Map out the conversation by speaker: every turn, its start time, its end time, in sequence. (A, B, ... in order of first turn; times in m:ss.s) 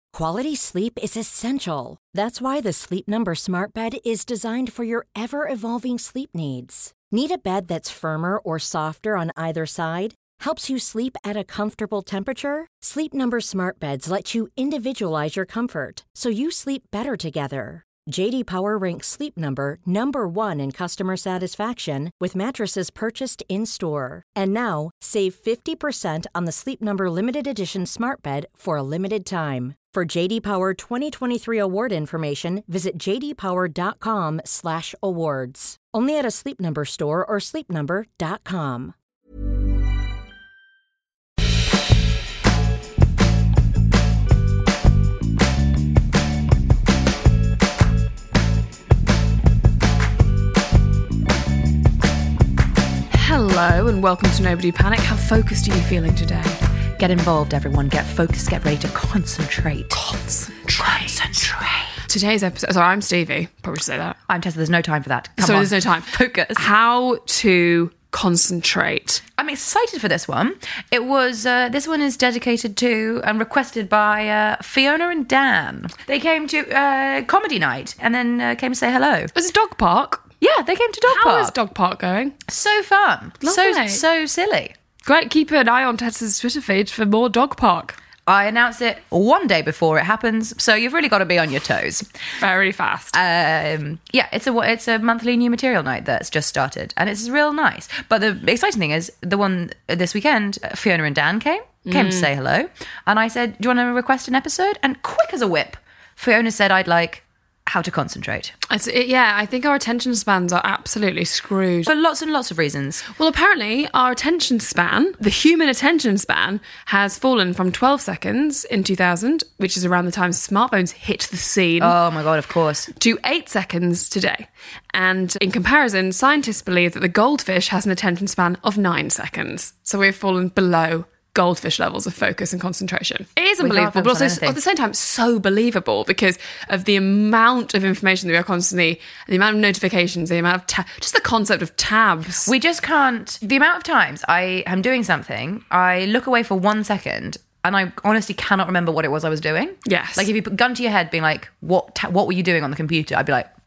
0:00.1-0:38.9 A
0:53.1-0:56.6 B
0:57.0-1:00.0 C
0:59.9-1:01.2 B
1:00.8-1:02.0 C
1:02.1-1:04.2 B
1:04.3-1:06.6 C
1:05.4-1:09.2 B
1:09.4-1:19.3 C
1:19.3-1:20.3 B
1:20.4-1:21.5 C
1:21.1-1:22.4 B
1:22.5-1:24.7 C
1:23.4-1:24.0 B
1:25.0-1:28.0 B
1:28.3-1:32.0 C
1:32.4-1:33.2 B
1:33.1-1:48.5 C
1:41.8-1:42.3 B
1:48.7-1:51.9 B
1:51.8-1:53.0 C
1:53.2-2:02.0 B
2:01.8-2:02.9 C
2:03.0-2:22.5 B
2:13.6-2:14.6 C
2:22.4-2:33.5 C
2:29.8-2:30.3 B